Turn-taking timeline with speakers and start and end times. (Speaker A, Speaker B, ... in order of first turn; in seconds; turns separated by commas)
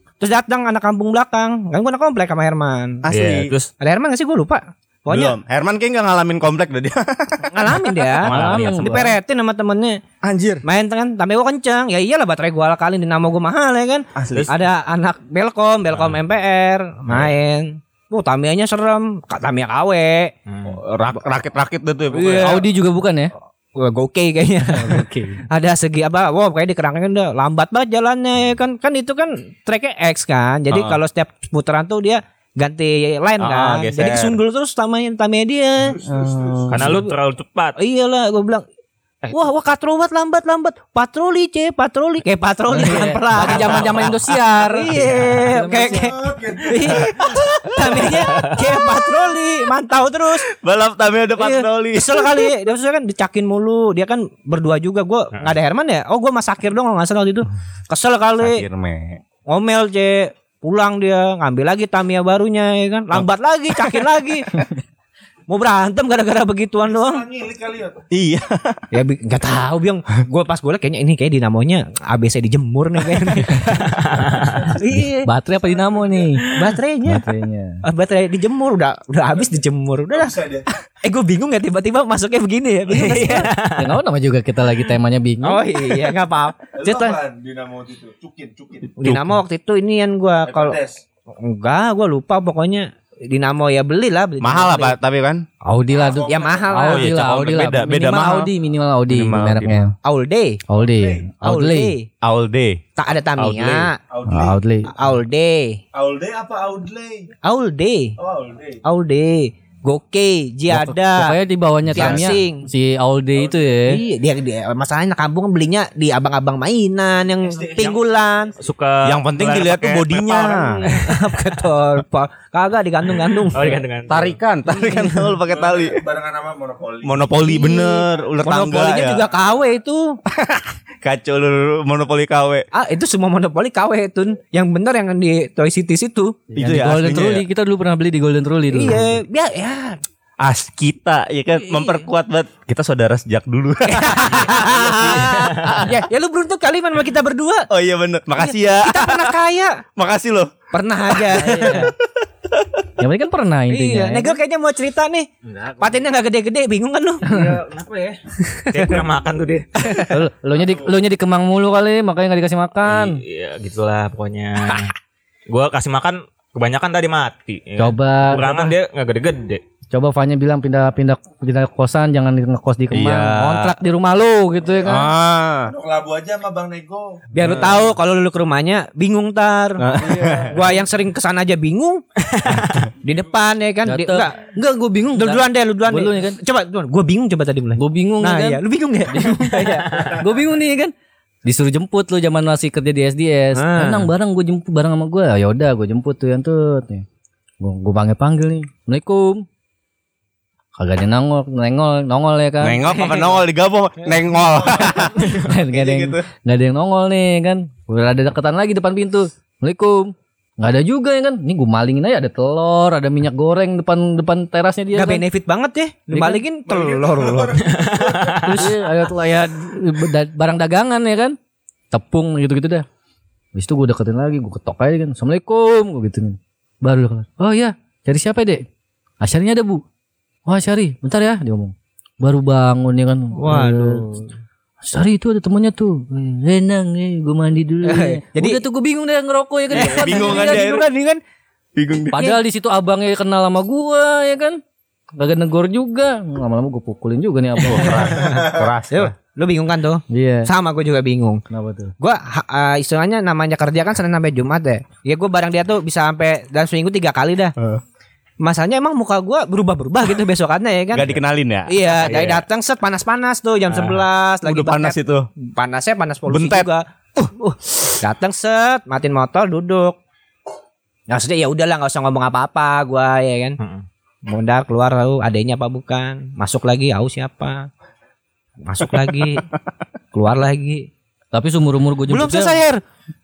Speaker A: 0.2-3.0, Speaker B: 3.0-3.5, Speaker C: 3.1-3.7, Speaker A: 3.8-5.3, Speaker B: 5.1-7.8, Speaker A: 7.5-10.0, Speaker C: 8.2-9.1, Speaker D: 8.2-9.2, Speaker B: 10.2-10.6, Speaker A: 10.6-20.3, Speaker B: 14.2-14.5, Speaker C: 14.3-14.6, Speaker C: 15.9-16.2, Speaker C: 20.5-20.8, Speaker B: 20.7-22.6, Speaker A: 22.1-22.6, Speaker D: 22.3-23.3, Speaker A: 23.8-36.0, Speaker D: 24.7-25.4, Speaker B: 30.7-31.0, Speaker B: 33.4-34.4, Speaker E: 35.8-36.8, Speaker C: 36.7-37.8, Speaker A: 36.8-37.0, Speaker A: 37.8-38.6, Speaker A: 39.3-50.5, Speaker D: 42.7-46.1, Speaker E: 45.6-47.1, Speaker C: 48.3-48.6, Speaker B: 50.5-52.5, Speaker A: 51.4-58.6, Speaker B: 58.4-59.2, Speaker A: 59.5-64.5, Speaker A: 65.5-67.2, Speaker E: 66.8-68.0, Speaker B: 68.1-68.8, Speaker A: 68.9-73.6, Speaker C: 73.6-74.7, Speaker A: 74.7-75.3, Speaker D: 75.0-76.4, Speaker E: 75.6-76.4, Speaker A: 76.5-77.2, Speaker D: 77.0-77.8, Speaker A: 77.8-80.3, Speaker E: 80.1-80.7, Speaker A: 81.0-83.5, Speaker C: 82.9-83.9, Speaker D: 83.8-86.0, Speaker A: 85.4-87.2, Speaker E: 86.8-89.0, Speaker A: 89.0-90.8, Speaker E: 90.4-91.0, Speaker A: 91.4-95.0, Speaker B: 94.4-95.4, Speaker D: 95.6-99.9, Speaker E: 95.9-96.8, Speaker A: 96.3-97.1, Speaker B: 96.8-98.4, Speaker A: 97.9-98.5, Speaker B: 99.1-99.9, Speaker A: 100.0-100.6, Speaker D: 100.7-101.9, Speaker E: 100.8-101.3, Speaker A: 101.4-102.1, Speaker B: 102.2-102.8, Speaker A: 103.0-104.0, Speaker C: 103.4-103.9, Speaker E: 104.1-104.6, Speaker D: 104.3-104.9, Speaker A: 104.9-105.8, Speaker E: 105.9-107.3, Speaker A: 107.4-108.1, Speaker E: 108.2-108.8, Speaker A: 108.8-111.3, Speaker D: 110.7-114.0, Speaker A: 111.9-112.6, Speaker A: 113.9-118.5, Speaker E: 117.5-118.0, Speaker C: 118.6-121.3, Speaker B: 119.0-120.9, Speaker A: 120.3-123.8, Speaker C: 123.5-124.4, Speaker B: 124.1-126.0, Speaker A: 124.7-125.3, Speaker E: 125.5-127.6, Speaker B: 127.0-129.2, Speaker A: 127.4-130.2, Speaker B: 130.3-132.7, Speaker A: 132.7-136.4, Speaker B: 136.5-137.4, Speaker D: 136.6-139.2, Speaker A: 138.7-140.0, Speaker B: 140.4-145.9, Speaker A: 141.5-142.1, Speaker A: 143.9-147.7, Speaker C: 145.0-145.7, Speaker B: 147.7-149.3, Speaker A: 148.3-149.8, Speaker B: 150.0-150.5, Speaker A: 150.7-151.9, Speaker B: 151.1-151.9, Speaker D: 151.4-151.9, Speaker D: 153.0-154.4, Speaker A: 153.7-155.3, Speaker C: 155.5-155.9, Speaker A: 155.8-157.4, Speaker C: 157.3-158.2, Speaker A: 158.4-158.9, Speaker C: 158.7-160.0, Speaker D: 160.1-163.2, Speaker E: 160.6-160.8, Speaker C: 162.8-164.9, Speaker C: 165.5-169.6, Speaker D: 167.8-168.7, Speaker D: 169.9-175.1, Speaker B: 172.9-173.7, Speaker B: 174.8-175.7, Speaker E: 175.7-177.2, Speaker A: 177.3-179.8, Speaker B: 177.4-177.9, Speaker B: 179.8-180.6, Speaker E: 180.0-180.5, Speaker A: 180.4-182.0, Speaker C: 182.2-182.9, Speaker A: 183.0-184.4, Speaker D: 183.8-186.4, Speaker A: 185.2-189.9, Speaker D: 187.8-190.9, Speaker D: 191.4-197.1, Speaker A: 193.5-194.1, Speaker D: 197.6-199.4, Speaker D: 200.8-202.8, Speaker B: 202.6-206.2, Speaker A: 202.9-203.4, Speaker D: 205.1-215.2, Speaker A: 214.9-217.5, Speaker D: 216.1-216.4, Speaker E: 216.7-218.6, Speaker C: 217.6-218.6, Speaker D: 218.5-221.4, Speaker D: 221.9-222.8, Speaker D: 223.5-228.7, Speaker D: 229.2-229.8, Speaker D: 230.4-234.2, Speaker A: 233.3-234.3, Speaker D: 234.8-240.8, Speaker A: 237.8-238.6, Speaker A: 239.7-241.2, Speaker B: 239.7-240.8, Speaker B: 241.8-242.1, Speaker D: 242.1-244.6, Speaker D: 245.1-248.2, Speaker B: 247.6-249.1, Speaker A: 248.0-248.3, Speaker E: 248.3-248.7, Speaker A: 248.9-251.4, Speaker D: 250.1-250.5, Speaker D: 251.5-251.9, Speaker A: 252.0-257.6, Speaker A: 258.4-270.0, Speaker B: 260.9-261.7, Speaker C: 261.9-262.4, Speaker C: 263.7-264.0, Speaker B: 264.4-265.3, Speaker B: 266.3-267.3, Speaker A: 271.1-273.6, Speaker C: 273.6-273.9, Speaker A: 274.2-277.7, Speaker A: 278.6-279.4, Speaker B: 278.9-279.4, Speaker A: 280.1-280.9, Speaker D: 281.3-282.6, Speaker A: 282.1-282.8